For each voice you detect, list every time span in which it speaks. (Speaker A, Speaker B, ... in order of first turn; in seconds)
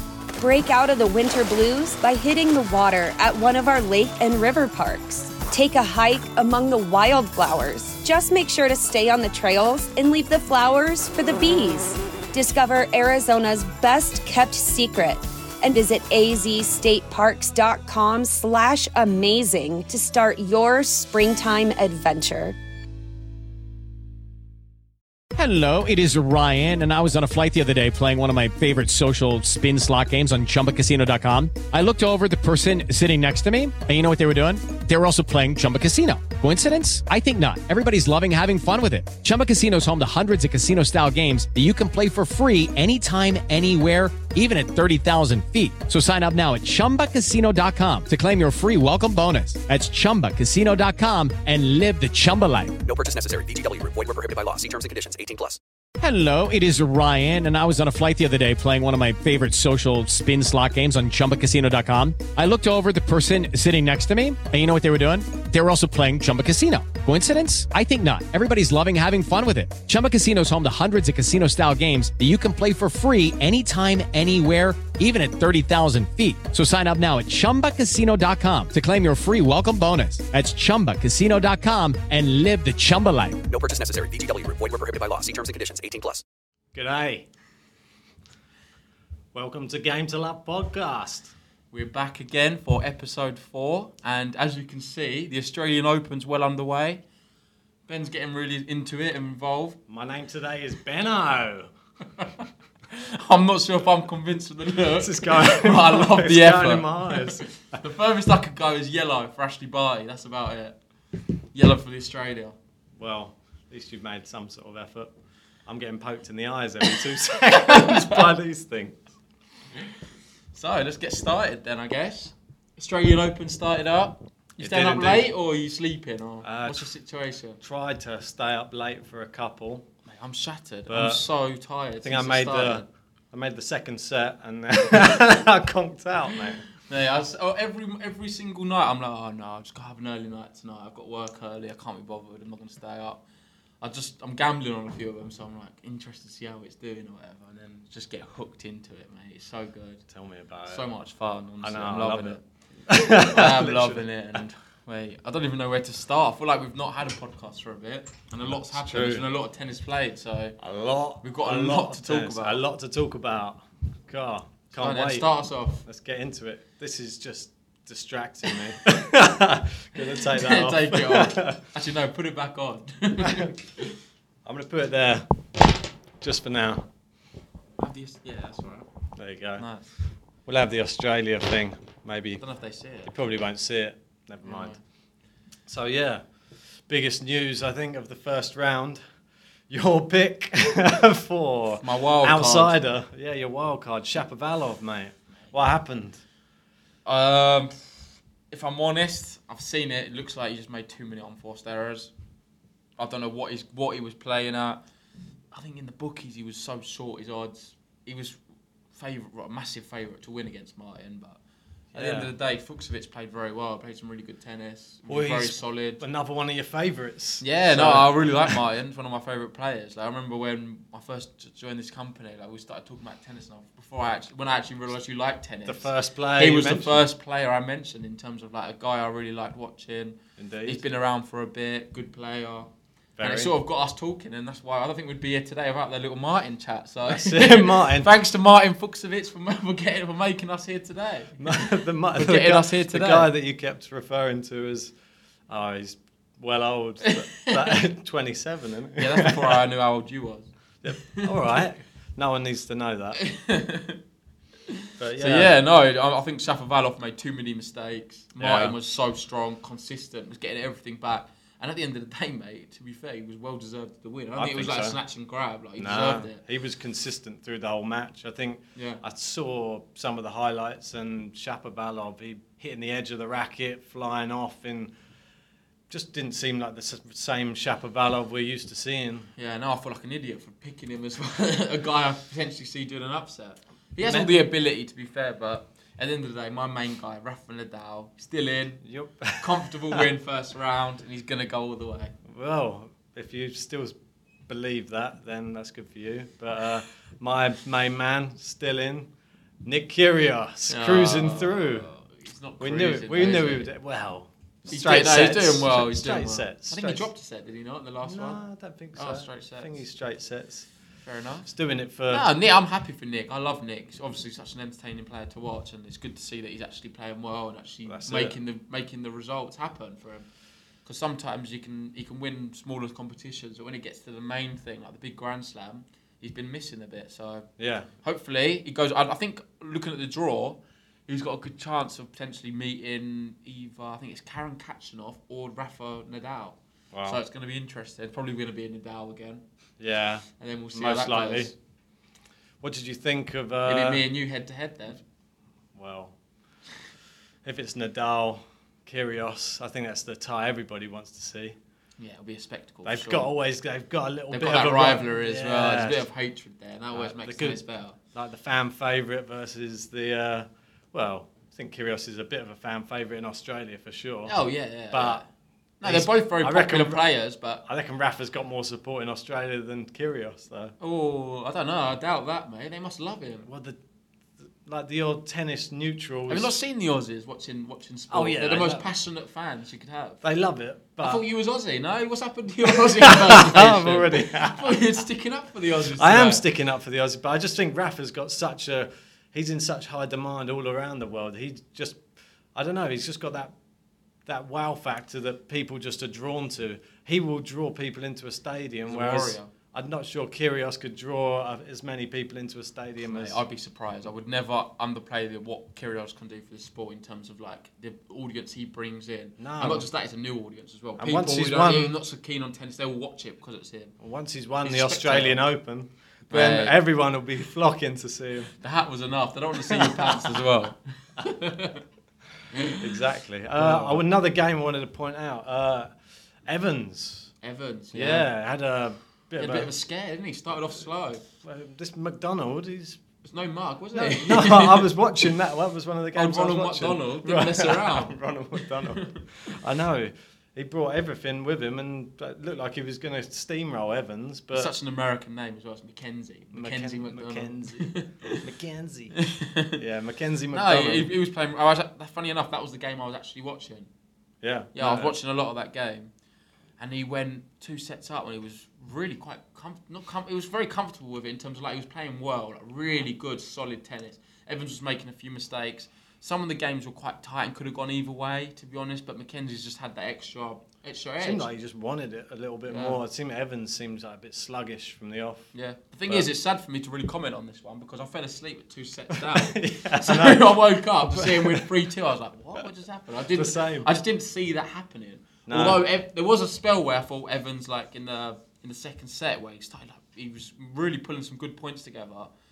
Speaker A: 0.4-22.6
Speaker B: 25.3-52.7, 56.0-83.4
Speaker C: 52.8-55.6, 83.5-86.2
Speaker D: 86.7-87.3, 89.3-91.3, 99.9-101.7, 105.0-107.5, 113.0-115.1, 115.7-119.0, 124.6-125.3, 126.4-126.9, 127.6-129.8, 130.9-131.2, 132.0-136.7, 150.1-150.9, 151.6-154.4, 158.5-159.2, 160.6-165.3, 165.8-171.6, 174.4-175.3, 176.2-176.9, 179.2-179.7, 180.4-182.4, 183.0-184.8, 185.7-186.2, 186.9-189.0, 189.7-196.2, 211.9-212.3, 215.1-218.6, 225.6-227.1, 230.4-230.8, 233.2-233.5, 237.1-238.1, 241.4-244.9, 245.5-249.6, 250.8-253.2, 255.0-255.5, 258.4-258.7, 264.4-265.0, 265.8-274.9, 275.9-279.3, 284.0-284.4, 288.8-290.1, 292.2-293.9, 294.5-299.1, 299.6-301.9, 302.6-307.1, 308.0-310.7, 311.4-312.3, 317.9-318.4, 327.6-327.9, 336.9-337.2, 339.8-341.5, 342.6-344.0, 345.7-346.1, 347.4-351.6, 352.8-356.0, 356.9-364.4, 364.9-365.2, 365.8-367.1, 367.6-370.7, 373.4-373.8, 374.6-376.6, 378.1-378.9, 380.2-381.2, 383.0-384.8, 385.9-392.0, 392.5-393.5, 394.2-403.4, 409.4-409.9, 411.0-411.9, 414.0-418.5, 419.6-420.4, 422.7-425.9, 426.4-427.3, 427.9-429.7, 431.4-433.0, 433.9-444.7, 446.5-449.1, 449.7-451.1, 454.4-455.1, 471.2-475.5, 479.1-481.7, 483.3-483.9, 485.5-485.9
Speaker E: 91.7-97.0, 97.9-99.8, 102.2-110.8, 111.5-112.6, 117.0-118.3, 120.5-127.6, 130.1-132.9, 136.8-143.2, 143.8-150.0, 150.7-160.6, 161.2-162.6, 164.7-165.8, 168.4-168.7, 170.0-174.0, 177.8-178.9, 179.6-179.9, 182.4-183.1, 184.4-184.8, 191.8-192.8, 197.0-197.9, 198.5-202.1, 203.0-204.8, 205.5-208.4, 208.9-211.4, 211.9-216.0, 217.4-243.3, 247.0-247.8, 249.0-251.6, 253.2-254.0, 254.7-266.4, 268.7-269.0, 279.3-288.8, 289.4-292.1, 300.7-303.7, 304.7-308.4, 308.9-309.8, 311.0-311.5, 312.1-320.3, 320.8-327.5, 328.0-339.4, 340.4-341.5, 343.7-345.0, 352.0-353.3, 354.3-358.0, 364.2-365.2, 365.8-367.6, 370.8-373.5, 376.3-380.2, 381.0-386.4, 398.8-399.5, 403.0-413.9, 414.6-415.4, 416.3-416.8, 418.5-421.8, 422.5-423.0, 423.6-424.0, 427.4-428.3, 429.4-431.2, 433.2-435.3, 436.1-439.2, 444.5-448.4, 449.1-449.8, 450.5-453.9, 454.7-456.1, 456.8-471.5, 472.7-473.0, 475.5-492.3